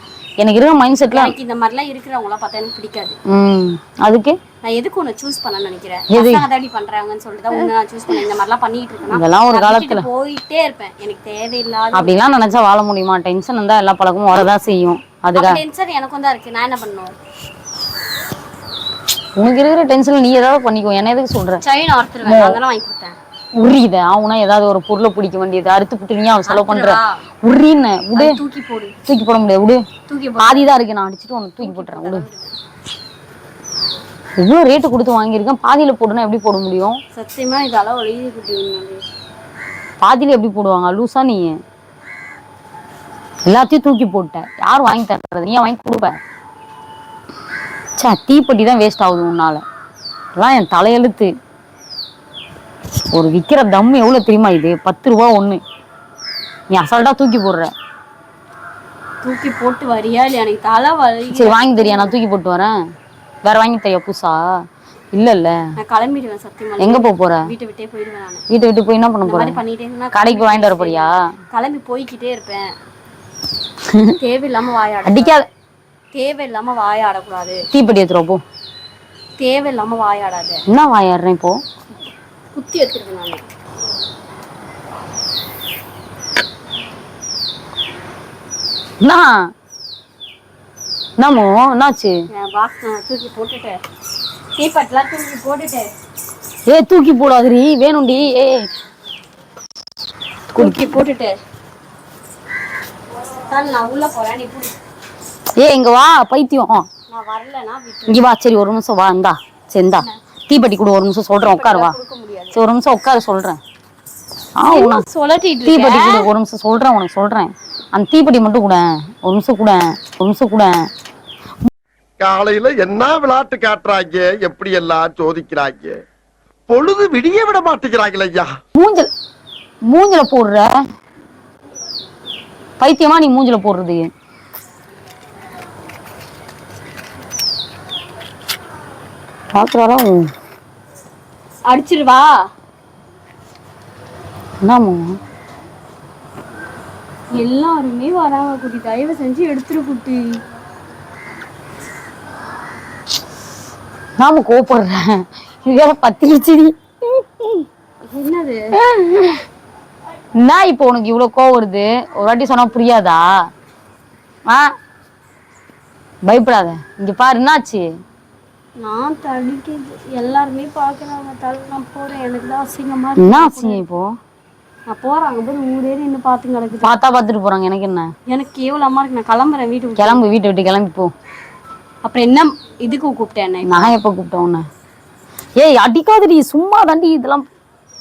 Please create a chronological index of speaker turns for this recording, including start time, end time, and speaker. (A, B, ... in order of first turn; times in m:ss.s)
0:00.4-0:01.3 A
0:01.1-0:03.2 B
0:03.3-0:04.4 A
0:04.6-0:12.1 B
0:06.1-0:06.5 A
0:09.1-0:10.0 A
0:11.9-0:15.6 A
0:15.3-0:17.1 B
0:19.4-0:21.6 A
0:21.6-0:23.2 B
0:22.2-0:22.6 A
0:23.6-0:28.3 A
0:26.4-0:27.2 B
0:28.2-0:28.9 B
0:29.1-0:29.8 A
0:30.1-0:30.7 B
0:30.4-0:32.2 A
0:31.6-0:32.5 B
0:34.4-0:37.0 A
0:37.1-0:39.0 B
0:40.0-0:41.5 A
0:43.4-0:46.2 A
0:48.0-0:49.6 A
0:50.4-0:51.3 A
0:53.1-0:55.6 A
0:56.7-0:57.7 A
0:59.2-1:02.2 B
1:01.3-1:02.7 A
1:03.4-1:04.4 A
1:05.1-1:05.5 A
1:05.8-1:08.4 B
1:06.8-1:07.5 A
1:08.5-1:09.6 A
1:09.2-1:12.7 B
1:10.1-1:11.2 A
1:14.2-1:15.3 B
1:15.0-1:15.5 A
1:16.1-1:17.6 B
1:17.7-1:18.4 A
1:19.4-1:20.6 B
1:20.7-1:21.6 A
1:22.5-1:23.4 B
1:29.0-1:29.3 A
1:31.2-1:32.1 A
1:32.3-1:33.8 B
1:34.6-1:35.9 B
1:36.7-1:38.7 A
1:40.5-1:40.9 A
1:40.5-1:41.3 B
1:43.5-1:44.7 B
1:45.6-1:46.8 A
1:47.1-1:48.2 B
1:48.1-1:51.9 A
1:51.4-1:52.6 B
1:52.5-1:53.6 A
1:54.6-1:55.0 A
1:54.6-1:56.3 B
1:55.6-2:00.7 A
2:02.2-2:06.0 C
2:06.7-2:08.5 C
2:08.8-2:09.1 A
2:09.9-2:10.7 A
2:12.8-2:14.1 A
2:19.5-2:20.3 A
2:21.7-2:22.3 B
2:24.6-2:25.1 A
2:27.3-2:30.4 B
2:34.2-2:37.6 A
2:38.1-2:38.7 B
2:38.8-2:39.4 A
2:40.4-2:43.2 A
2:46.3-2:47.8 A
2:48.8-2:53.8 B
2:53.2-2:54.1 A
2:54.9-2:56.9 B
2:56.8-2:58.1 A
2:58.3-3:00.2 B
3:00.0-3:01.1 A
3:02.0-3:03.9 B
3:03.6-3:04.6 A
3:05.6-3:07.4 A